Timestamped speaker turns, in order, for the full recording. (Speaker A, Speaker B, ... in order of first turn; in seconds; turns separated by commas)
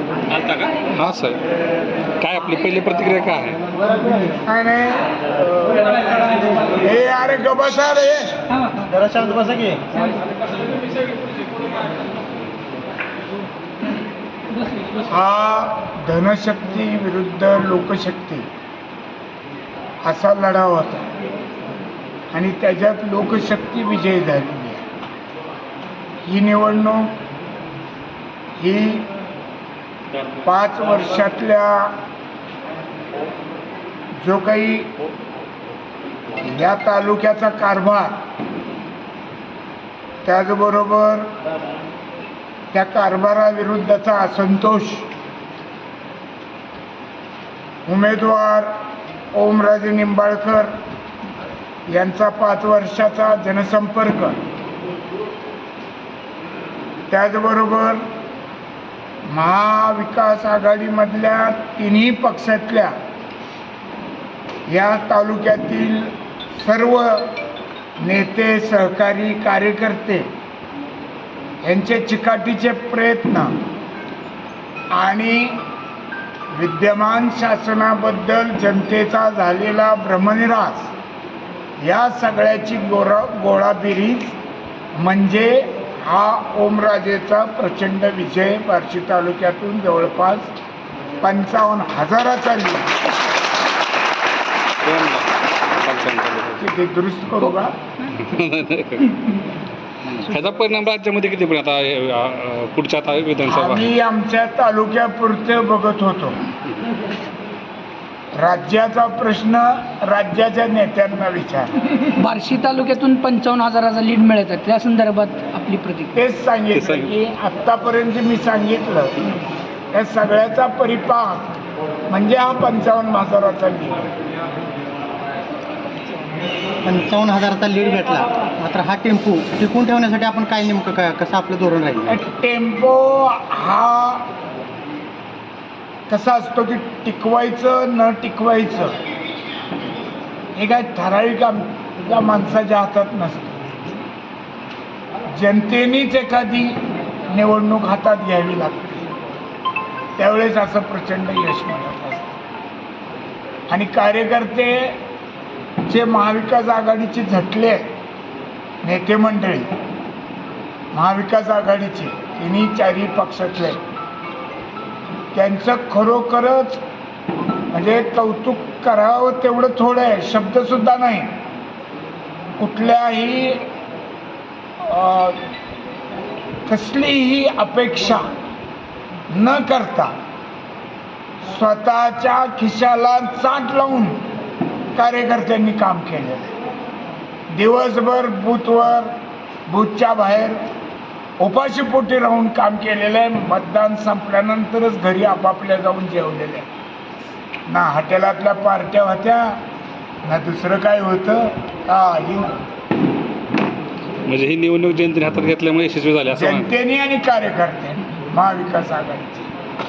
Speaker A: 0.3-1.4, Speaker A: 2.2-3.6, Speaker B: 4.4-6.0, Speaker B: 6.7-8.5, Speaker C: 8.8-9.8, Speaker B: 15.1-18.5, Speaker B: 20.0-21.1, Speaker B: 22.3-24.9, Speaker B: 26.2-27.1, Speaker B: 28.6-29.1, Speaker B: 30.4-31.9, Speaker B: 34.2-34.9, Speaker B: 36.4-38.1, Speaker B: 40.2-41.3, Speaker B: 42.7-45.1, Speaker B: 47.9-48.7, Speaker B: 49.3-50.7, Speaker B: 51.9-54.4, Speaker B: 57.1-58.0, Speaker B: 59.3-62.9, Speaker B: 64.7-67.3, Speaker B: 68.0-70.3, Speaker B: 71.6-73.5, Speaker B: 74.9-75.6, Speaker B: 76.5-80.9, Speaker B: 81.8-84.3, Speaker B: 85.0-90.5, Speaker B: 91.2-92.9, Speaker A: 94.8-96.7, Speaker B: 96.6-97.7, Speaker A: 98.1-99.2, Speaker A: 100.0-103.9, Speaker B: 103.5-106.3, Speaker B: 108.4-111.7, Speaker D: 112.0-116.1, Speaker B: 116.1-119.2, Speaker A: 116.7-117.1, Speaker B: 119.9-121.5, Speaker B: 122.1-124.0, Speaker C: 126.8-132.2, Speaker B: 132.1-134.2, Speaker B: 136.1-138.9, Speaker B: 140.6-144.0, Speaker B: 145.3-149.1, Speaker B: 150.2-152.4, Speaker B: 153.7-155.0, Speaker B: 155.8-157.9, Speaker B: 158.8-159.7, Speaker B: 160.9-163.8, Speaker B: 165.3-166.8, Speaker B: 167.7-171.4, Speaker B: 172.6-173.6, Speaker B: 174.8-175.4, Speaker B: 176.7-178.2, Speaker B: 179.3-180.1, Speaker B: 181.4-184.2, Speaker B: 184.9-186.5, Speaker B: 187.5-189.1, Speaker B: 189.7-190.6, Speaker B: 191.4-196.7, Speaker B: 197.7-199.6, Speaker B: 200.2-202.5, Speaker A: 204.2-206.7, Speaker B: 206.3-209.5